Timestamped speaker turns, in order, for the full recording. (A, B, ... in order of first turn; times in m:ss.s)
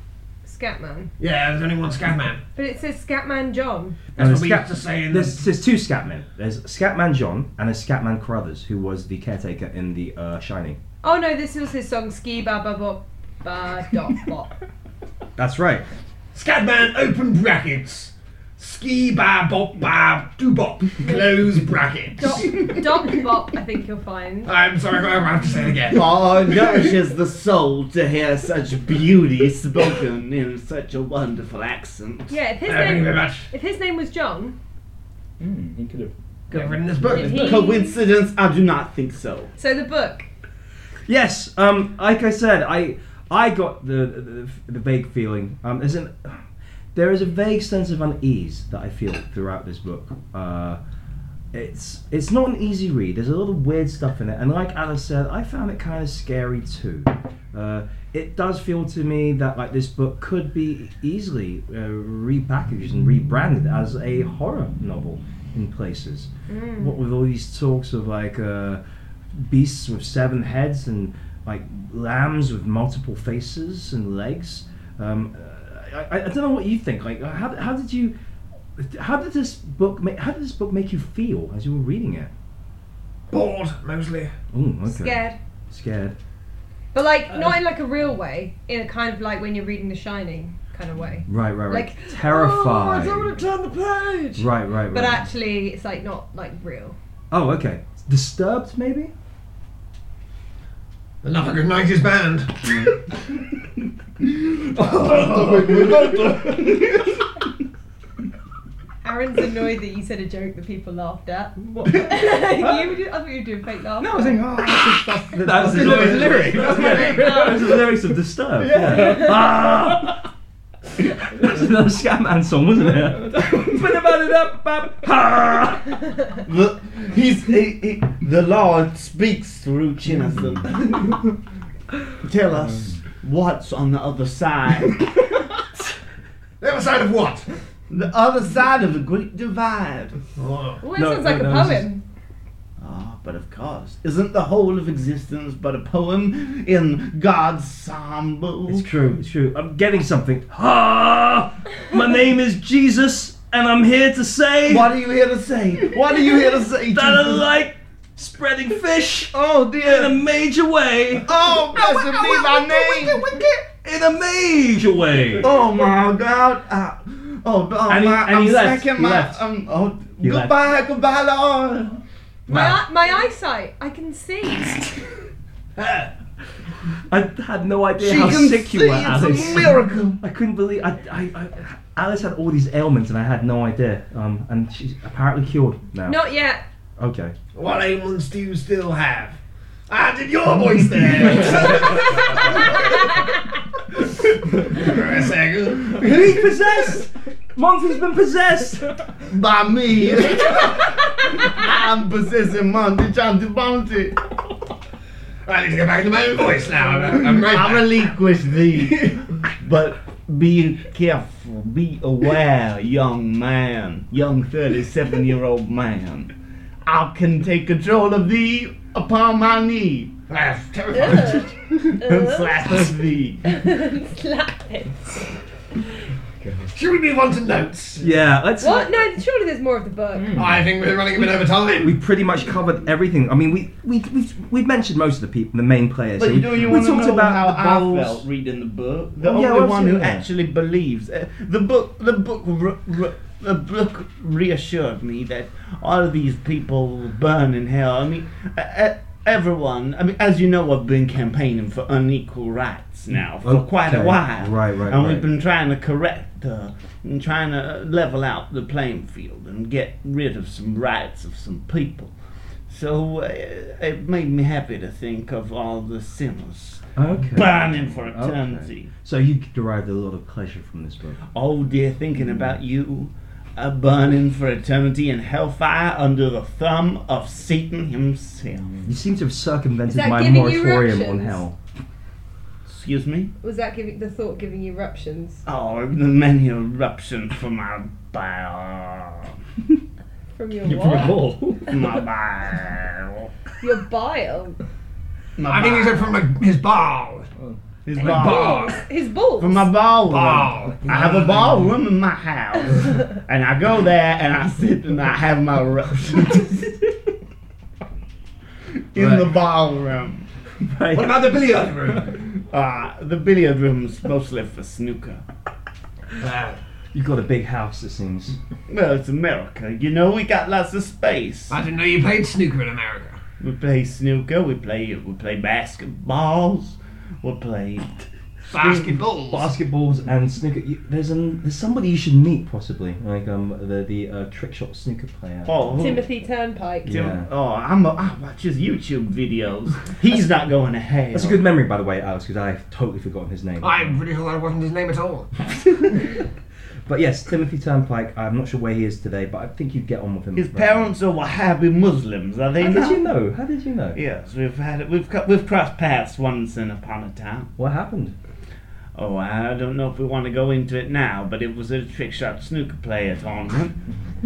0:00.4-0:01.1 A
0:01.2-0:02.4 B
0:02.6-0:04.0 A
0:04.2-0:05.5 B
0:04.2-0:10.8 C
0:11.0-0:14.6 A
0:15.4-0:15.8 C
0:16.3-0:22.8 B
0:21.0-0:21.5 A
0:22.2-0:24.5 A
0:24.4-0:26.7 B
0:25.9-0:32.4 D
0:32.3-0:34.6 A
0:32.6-0:33.5 B
0:35.4-0:37.1 E
0:36.5-0:37.6 B
0:37.1-0:38.0 A
0:37.1-0:39.5 D
0:39.6-0:40.3 A
0:41.1-0:46.4 C
0:46.9-0:50.8 C
0:51.5-1:08.8 C
1:06.5-1:07.0 A
1:09.3-1:18.2 C
1:18.8-1:22.3 C
1:23.3-1:24.3 B
1:24.5-1:26.2 C
1:24.9-1:25.4 A
1:26.9-1:37.0 A
1:31.3-1:33.4 C
1:32.8-1:34.3 B
1:34.4-1:35.3 C
1:37.3-1:39.1 C
1:41.2-1:43.0 B
1:44.8-1:46.1 E
1:44.8-1:47.2 D
1:49.0-1:54.4 A
1:51.8-1:52.0 E
1:54.0-1:57.6 E
1:55.4-2:00.2 C
1:55.8-1:56.5 D
1:56.0-1:57.2 B
1:57.2-1:57.5 A
1:58.6-1:59.4 E
2:01.0-2:06.0 C
2:06.4-2:11.3 D
2:12.2-2:15.3 D
2:16.6-2:17.5 B
2:17.9-2:20.2 D
2:20.4-2:20.8 B
2:20.8-2:22.0 A
2:20.9-2:21.9 C
2:22.8-2:28.8 D
2:28.7-2:34.9 C
2:34.7-2:37.4 D
2:36.9-2:41.6 C
2:39.3-2:40.2 D
2:41.2-2:43.4 D
2:43.8-2:45.5 C
2:45.4-2:52.0 D
2:47.9-2:49.4 C
2:50.2-2:50.6 C
2:52.5-2:55.0 A
2:52.5-2:52.8 C
2:55.8-2:56.1 B
2:57.1-3:06.3 C
2:58.0-3:00.2 D
3:06.0-3:06.6 A
3:07.0-3:07.4 C
3:07.6-3:09.4 B
3:09.9-3:13.1 B
3:14.2-3:16.3 B
3:15.9-3:19.0 C
3:19.3-3:24.2 D
3:25.4-3:28.0 B
3:27.5-3:36.3 D
3:36.8-3:40.1 D
3:40.3-3:41.5 B
3:41.0-3:42.7 A
3:41.9-3:43.4 D
3:43.4-3:45.3 A
3:46.4-3:46.7 E
3:46.7-3:48.1 B
3:48.0-3:49.0 C
3:48.6-3:50.4 A
3:50.1-3:50.6 E
3:50.3-3:52.0 B
3:51.8-3:58.2 C
3:56.2-4:22.1 D
3:59.2-4:00.3 C
4:13.4-4:15.3 C
4:22.7-4:28.9 D
4:27.0-4:31.2 C
4:31.3-4:38.8 D
4:38.8-4:41.6 C
4:39.9-4:41.4 A
4:42.7-4:43.3 D
4:43.4-4:45.4 A
4:45.4-4:49.3 D
4:50.4-4:51.2 A
4:50.6-4:51.8 E
4:51.7-4:53.3 D
4:53.6-4:54.6 A
4:55.4-4:56.2 D
4:55.4-4:57.3 B
4:57.9-4:58.7 D
4:58.0-4:58.8 B
4:58.0-4:59.7 A
4:59.4-5:06.8 D
5:00.1-5:01.7 B
5:08.9-5:10.3 D
5:09.0-5:09.4 C
5:10.6-5:11.2 C
5:10.9-5:12.2 B
5:12.1-5:15.2 D
5:16.2-5:16.6 B
5:16.9-5:18.4 C
5:18.7-5:21.6 D
5:21.5-5:23.2 B
5:23.4-5:27.9 D
5:28.5-5:29.5 B
5:29.3-5:35.9 C
5:35.5-5:36.0 D
5:35.8-5:36.9 A
5:36.8-5:37.3 C
5:36.9-5:41.4 D
5:41.1-5:44.0 C
5:43.6-5:45.3 B
5:45.6-5:46.1 C
5:46.9-5:51.0 C
5:50.3-5:53.1 D
5:52.6-5:54.0 C
5:54.0-5:57.5 D
5:57.6-5:58.1 C
5:59.0-6:03.8 D